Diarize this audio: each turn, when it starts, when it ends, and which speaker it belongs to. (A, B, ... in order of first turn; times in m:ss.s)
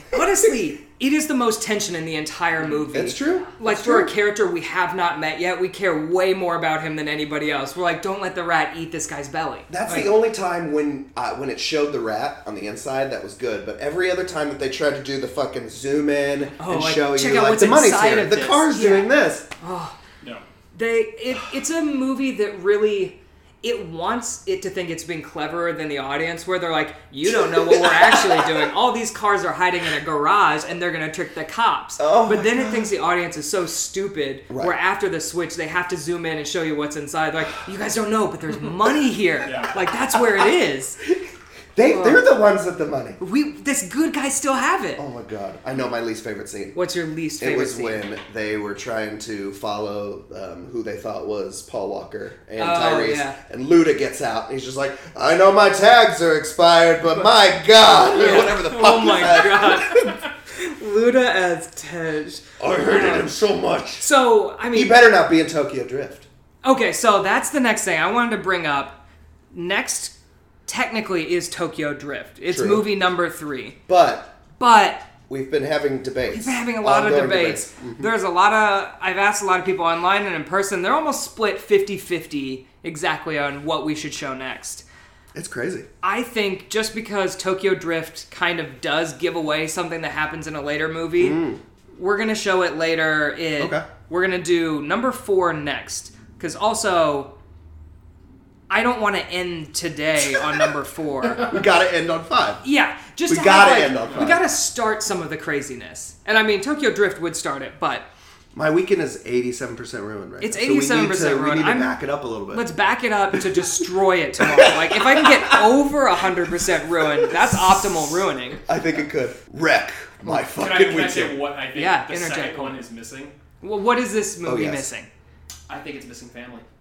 0:00.1-0:10.2 A
0:02.9-0:04.1 B
0:09.7-0:19.5 B
0:16.6-0:20.0 A
0:20.7-0:41.0 A
0:27.2-0:28.7 B
0:32.0-0:32.9 B
0:34.5-0:34.8 B
0:39.4-0:39.8 C
0:41.8-0:43.2 B
0:41.9-0:42.2 A
0:43.2-0:45.0 A
0:45.0-0:46.8 B
0:46.8-0:48.0 A
0:47.4-1:00.1 B
0:52.6-0:53.4 A
0:58.0-1:03.3 A
1:02.6-1:04.1 B
1:04.0-1:05.0 A
1:04.7-1:06.3 B
1:06.6-1:10.2 A
1:10.7-1:13.8 A
1:12.5-1:12.9 B
1:13.9-1:14.3 B
1:14.6-1:15.1 A
1:15.3-1:18.1 B
1:16.3-1:24.9 A
1:25.4-1:25.9 B
1:26.0-1:31.4 A
1:31.2-1:31.6 B
1:31.9-1:37.3 A
1:33.6-1:33.8 B
1:38.7-1:41.6 A
1:41.4-1:42.6 B
1:42.6-1:48.1 A
1:43.3-1:44.5 B
1:48.5-1:52.7 B
1:50.4-1:52.0 A
1:52.5-1:58.6 A
1:53.3-1:53.6 B
1:54.4-1:55.6 B
1:57.2-1:58.1 B
1:58.7-2:01.4 B
2:00.6-2:03.4 C
2:01.7-2:02.8 A
2:03.6-2:05.1 A
2:04.4-2:04.9 B
2:05.7-2:06.6 C